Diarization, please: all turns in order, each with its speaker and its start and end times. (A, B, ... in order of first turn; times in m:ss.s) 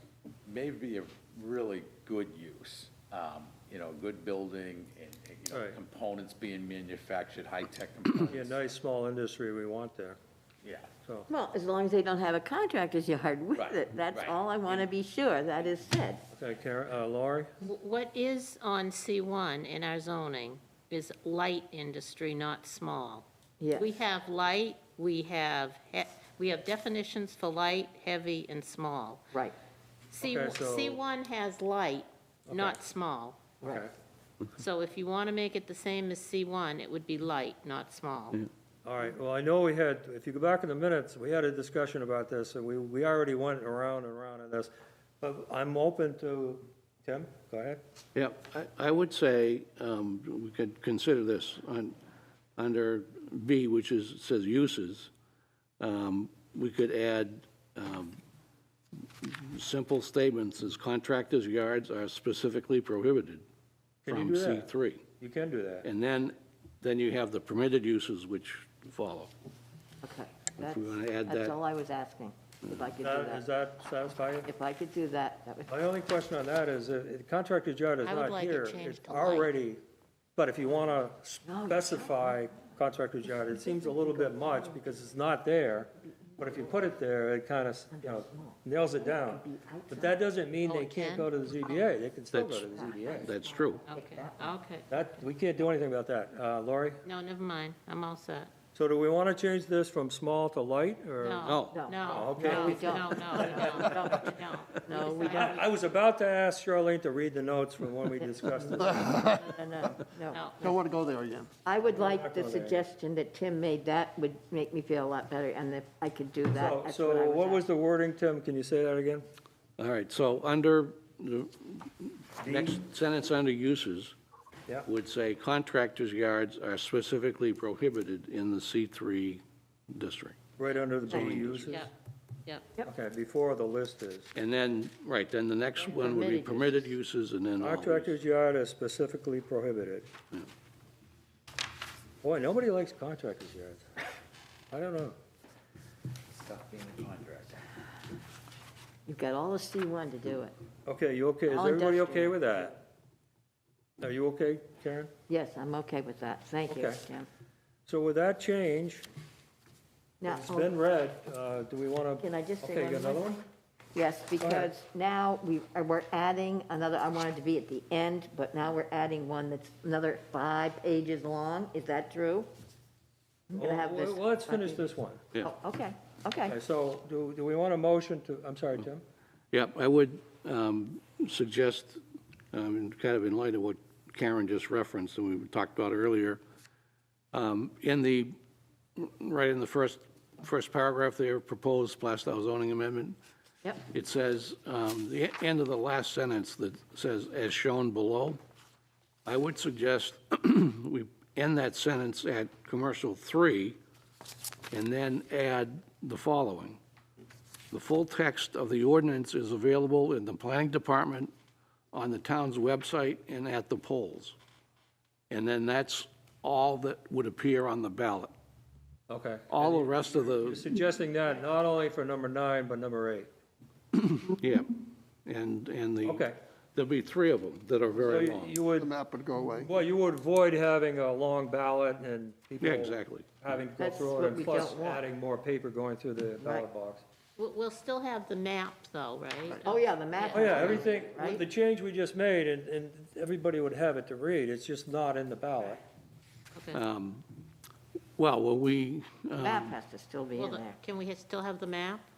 0:00.4-0:08.6 A
0:05.5-0:05.8 B
0:08.3-0:10.2 B
0:11.3-0:16.2 C
0:16.3-0:17.5 B
0:17.6-0:29.3 D
0:23.6-0:23.9 C
0:30.1-0:33.4 D
0:30.2-0:31.0 B
0:32.5-0:32.8 B
0:33.6-0:33.9 C
0:33.6-0:33.9 B
0:34.5-0:38.4 D
0:38.8-0:47.8 B
0:48.1-0:51.9 E
0:52.6-0:55.1 E
0:55.8-0:58.2 E
0:59.2-1:03.4 E
1:04.0-1:05.9 B
1:04.1-1:05.0 E
1:05.8-1:09.3 E
1:10.0-1:13.4 C
1:10.6-1:11.6 E
1:13.0-1:14.5 B
1:14.4-1:15.7 C
1:15.7-1:19.8 B
1:18.0-1:19.5 D
1:20.4-1:33.3 B
1:21.4-1:22.6 C
1:23.4-1:25.0 C
1:26.3-1:26.8 C
1:27.9-1:30.2 C
1:30.6-1:31.3 D
1:32.3-1:33.8 E
1:32.7-1:34.5 C
1:33.9-1:35.1 D
1:34.9-1:37.0 B
1:37.0-1:38.5 D
1:38.7-1:43.7 B
1:41.2-1:45.7 D
1:41.4-1:41.9 E
1:41.7-1:45.6 C
1:45.2-1:49.1 B
1:48.2-1:50.8 C
1:48.8-1:49.4 F
1:50.3-1:50.6 D
1:50.6-1:51.5 F
1:51.6-1:57.6 C
1:51.9-1:52.8 B
1:56.5-1:59.2 B
1:59.8-2:04.1 E
2:02.4-2:02.8 B
2:04.8-2:10.4 E
2:10.6-2:11.9 B
2:11.1-2:11.7 E
2:11.1-2:11.4 C
2:11.7-2:11.9 D
2:12.8-2:14.3 B
2:14.3-2:18.1 E
2:15.8-2:16.9 C
2:17.6-2:20.1 B
2:22.2-2:23.8 B
2:24.7-2:25.1 B
2:26.4-2:27.7 A
2:29.1-2:30.5 C
2:30.8-2:32.8 B
2:31.5-2:32.7 C
2:34.0-2:35.1 B
2:35.3-2:37.3 C
2:36.7-2:37.0 B
2:37.9-2:39.0 B
2:40.2-2:40.7 C
2:40.2-2:43.4 B
2:42.2-2:52.5 C
2:44.4-2:44.7 B
2:53.5-2:54.9 C
2:53.5-2:55.2 B
2:55.4-2:56.6 C
2:56.4-2:59.0 B
2:59.5-3:02.0 E
3:02.5-3:06.4 E
3:07.3-3:08.4 E
3:09.0-3:13.2 E
3:13.9-3:18.4 E
3:19.2-3:23.8 E
3:24.7-3:26.8 E
3:27.7-3:31.3 E
3:31.9-3:34.4 E
3:35.3-3:38.3 E
3:39.1-3:43.3 B
3:39.5-3:40.7 E
3:43.9-3:44.7 E
3:45.2-3:48.6 E
3:46.0-3:46.4 B
3:48.0-3:48.9 B
3:48.8-3:49.7 F
3:49.6-3:57.0 B
3:52.6-3:53.3 E
3:53.8-3:55.1 C
3:56.4-3:56.7 C
3:57.4-4:00.8 D
3:59.6-4:01.4 C
4:00.3-4:05.8 B
4:06.5-4:06.8 D
4:06.7-4:07.2 E
4:08.2-4:09.8 E
4:09.4-4:10.8 C
4:10.4-4:12.0 D